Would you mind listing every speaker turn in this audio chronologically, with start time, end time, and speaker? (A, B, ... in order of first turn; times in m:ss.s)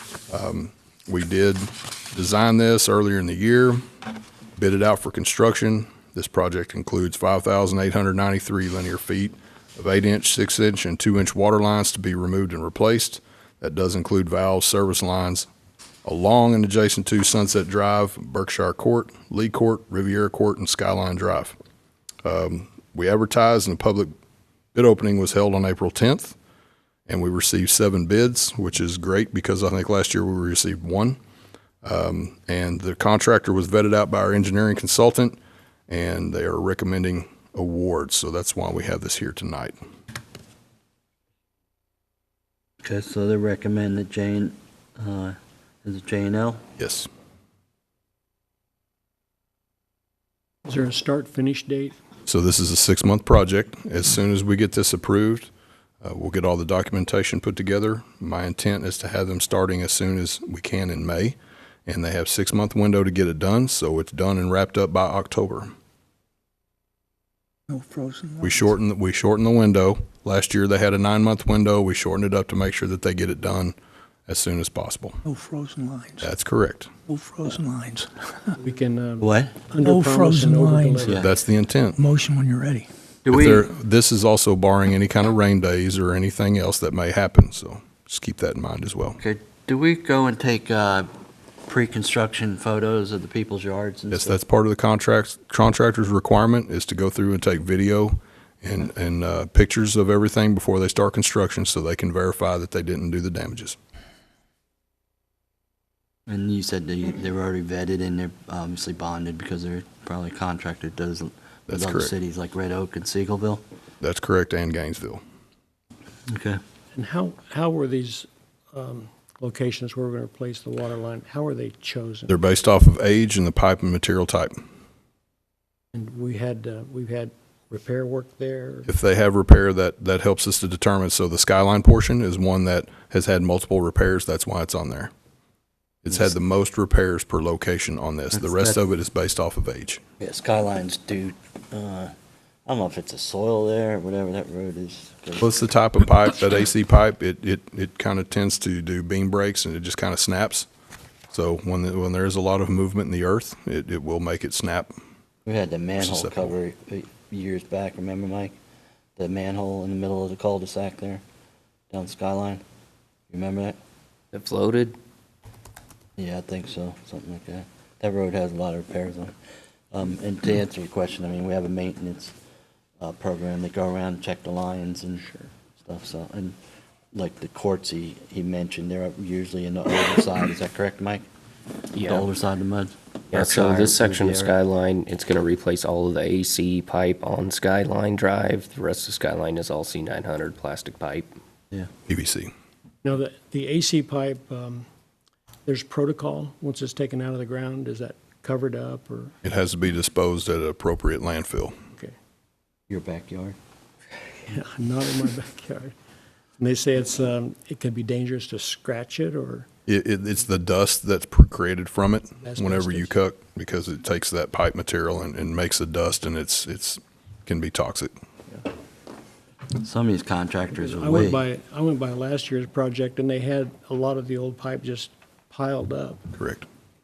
0:00.3-0:03.8 A
0:04.6-0:15.5 A
0:16.0-0:21.6 A
0:22.2-0:24.1 A
0:24.8-0:26.4 A
0:27.1-0:31.2 A
0:31.8-0:39.8 A
0:42.8-0:46.6 B
0:46.8-0:47.1 A
0:50.7-0:52.0 C
0:52.3-0:55.5 A
0:56.0-1:05.7 A
1:07.7-1:08.7 D
1:08.4-1:13.8 A
1:14.3-1:15.2 A
1:15.2-1:16.3 D
1:16.2-1:16.9 A
1:17.1-1:18.6 D
1:18.6-1:21.2 C
1:19.2-1:19.5 B
1:19.8-1:21.1 D
1:21.1-1:22.0 A
1:22.0-1:22.9 D
1:23.2-1:23.7 B
1:23.3-1:29.2 A
1:29.2-1:31.1 B
1:31.7-1:34.4 B
1:34.1-1:43.8 A
1:46.3-1:53.6 B
1:51.7-1:52.1 A
1:54.0-1:55.2 A
1:56.3-1:56.6 B
1:57.0-2:02.4 C
2:02.3-2:04.6 A
2:05.9-2:08.9 C
2:08.9-2:15.1 A
2:16.0-2:20.0 A
2:18.3-2:18.8 B
2:20.2-2:22.2 B
2:22.7-2:25.5 B
2:25.4-2:30.7 A
2:31.3-2:34.9 A
2:35.5-2:38.6 B
2:36.0-2:36.6 A
2:39.2-2:41.2 B
2:41.9-2:42.6 B
2:43.3-2:43.8 B
2:44.3-2:45.0 E
2:46.2-2:49.4 B
2:49.9-2:52.4 B
2:53.0-2:55.2 B
2:55.2-2:55.5 C
2:55.8-2:56.6 B
2:57.1-3:01.3 B
3:01.9-3:02.3 E
3:02.1-3:04.6 B
3:03.3-3:11.3 E
3:12.1-3:12.5 A
3:13.0-3:14.9 C
3:15.7-3:19.3 C
3:19.4-3:21.8 A
3:22.9-3:23.6 B
3:24.4-3:25.9 C
3:26.6-3:29.7 C
3:29.9-3:38.1 A
3:32.4-3:33.2 C
3:39.8-3:41.4 B
3:40.7-3:46.3 C
3:46.4-3:46.7 A